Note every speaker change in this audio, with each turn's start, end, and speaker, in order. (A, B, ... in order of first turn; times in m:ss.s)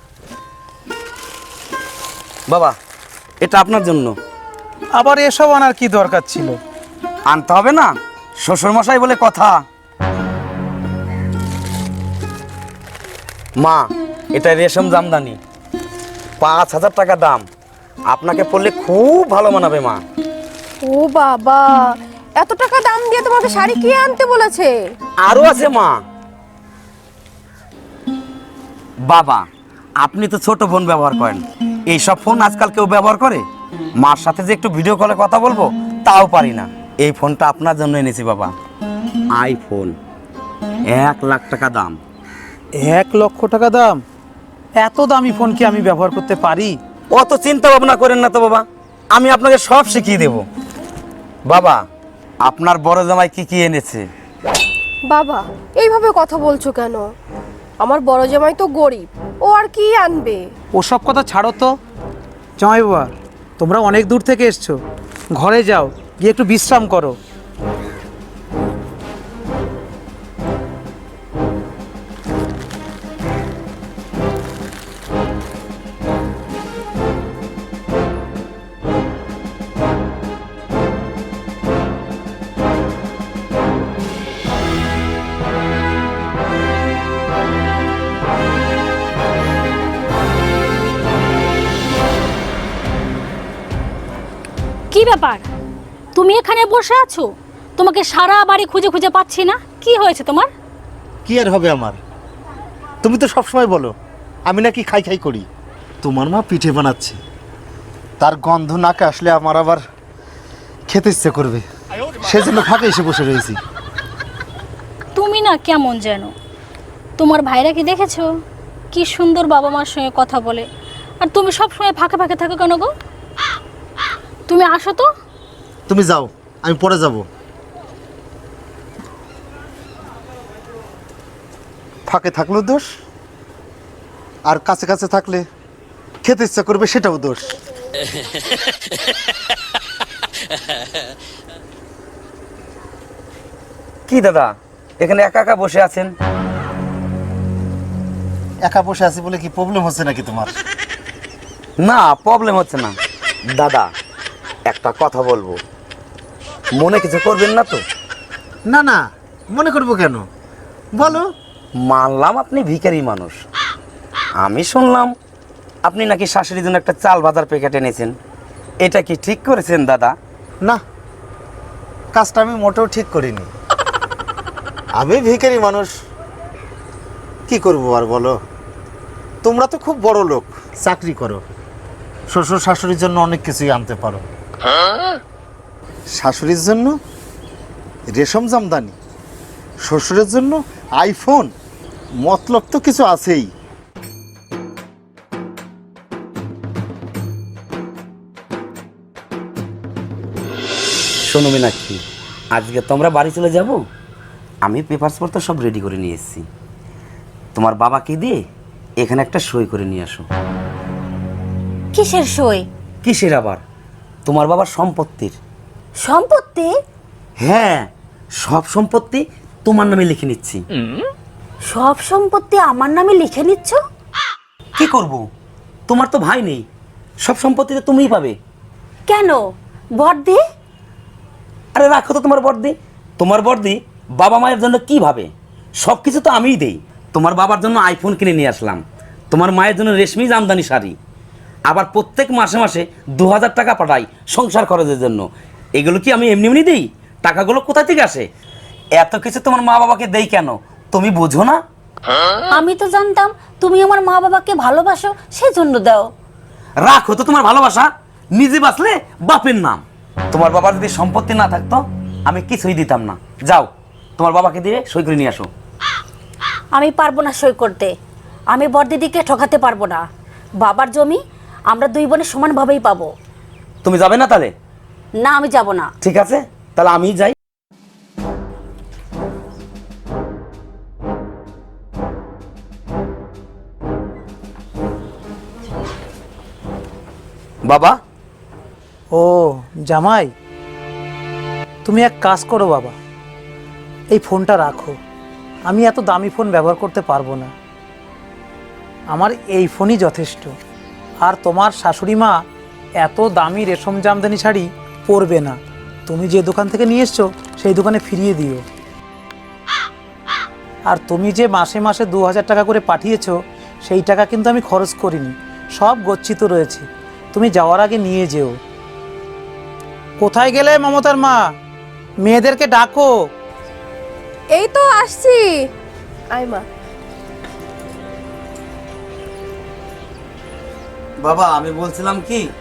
0:02.5-0:02.8 A
0:03.4-0:04.2 A
0:05.0-0:06.6 B
0:07.3-0:09.6 A
0:14.3-0:15.4 A
0:16.4-0:17.4 A
0:18.1-0:20.0 A
0:20.9-0:21.7 C
0:22.4-0:24.7 C
0:25.2-0:26.0 A
0:29.1-0:29.5 A
0:30.0-0:33.4 A
0:34.0-0:38.5 A
0:39.3-0:40.0 A
0:40.9-0:42.0 A
0:42.8-0:44.0 B
0:44.8-0:46.8 B
0:47.1-0:50.5 A
0:51.5-0:51.8 A
0:52.4-0:54.1 A
0:55.1-0:57.1 C
0:57.8-1:00.4 C
1:00.8-1:01.7 B
1:02.6-1:04.8 B
1:05.4-1:07.2 B
1:34.9-1:35.5 D
1:36.2-1:40.5 D
1:41.2-1:42.0 E
1:43.0-1:43.9 E
1:44.5-1:45.5 E
1:46.0-1:47.2 E
1:48.2-1:49.8 E
1:50.9-1:51.6 E
1:52.2-1:53.6 E
1:55.2-1:56.3 D
1:57.2-1:58.3 D
1:58.9-2:00.7 D
2:01.2-2:02.9 D
2:04.5-2:05.1 D
2:05.9-2:07.2 E
2:12.1-2:12.9 E
2:14.5-2:15.4 E
2:16.2-2:17.5 E
2:24.1-2:26.1 A
2:28.6-2:30.6 E
2:31.8-2:33.0 A
2:33.5-2:33.9 A
2:34.7-2:35.6 A
2:36.7-2:37.8 A
2:38.7-2:40.2 E
2:41.0-2:41.2 E
2:41.8-2:43.4 A
2:44.4-2:45.1 A
2:45.8-2:48.1 A
2:48.8-2:50.2 A
2:52.1-2:53.5 E
2:55.0-2:55.9 E
2:57.5-2:58.4 E
2:59.4-3:01.4 E
3:02.3-3:04.2 E
3:06.1-3:07.0 E
3:08.1-3:09.0 E
3:09.8-3:11.5 E
3:12.2-3:13.5 E
3:21.2-3:22.0 A
3:22.5-3:23.8 A
3:24.6-3:26.4 A
3:27.6-3:28.4 A
3:29.0-3:30.2 A
3:31.9-3:32.6 F
3:33.0-3:33.6 A
3:34.2-3:35.4 A
3:36.0-3:36.7 F
3:37.4-3:37.9 A
3:38.4-3:40.6 A
3:41.7-3:43.8 F
3:44.8-3:45.2 A
3:45.9-3:46.6 A
3:47.2-3:48.4 A
3:49.1-3:49.4 F
3:50.0-3:50.4 F
3:51.7-3:55.3 A
3:55.8-4:01.0 A
4:01.7-4:08.3 A
4:09.0-4:11.6 A
4:12.5-4:16.1 F
4:16.8-4:25.5 A
4:26.7-4:27.9 F
4:28.5-4:30.0 F
4:30.6-4:31.2 F
4:31.7-4:33.1 F
4:33.8-4:34.5 A
4:35.2-4:35.9 F
4:36.0-4:37.4 A
4:47.6-4:48.0 A
4:49.1-4:50.3 B
4:51.8-4:53.0 B
4:54.1-4:55.0 B
4:55.7-4:57.5 B
4:59.1-5:00.6 B
5:01.2-5:02.4 B
5:03.0-5:08.6 B
5:10.9-5:18.6 B
5:20.2-5:21.4 B
5:22.2-5:23.3 B
5:24.6-5:25.5 C
5:26.3-5:26.6 C
5:31.2-5:32.5 A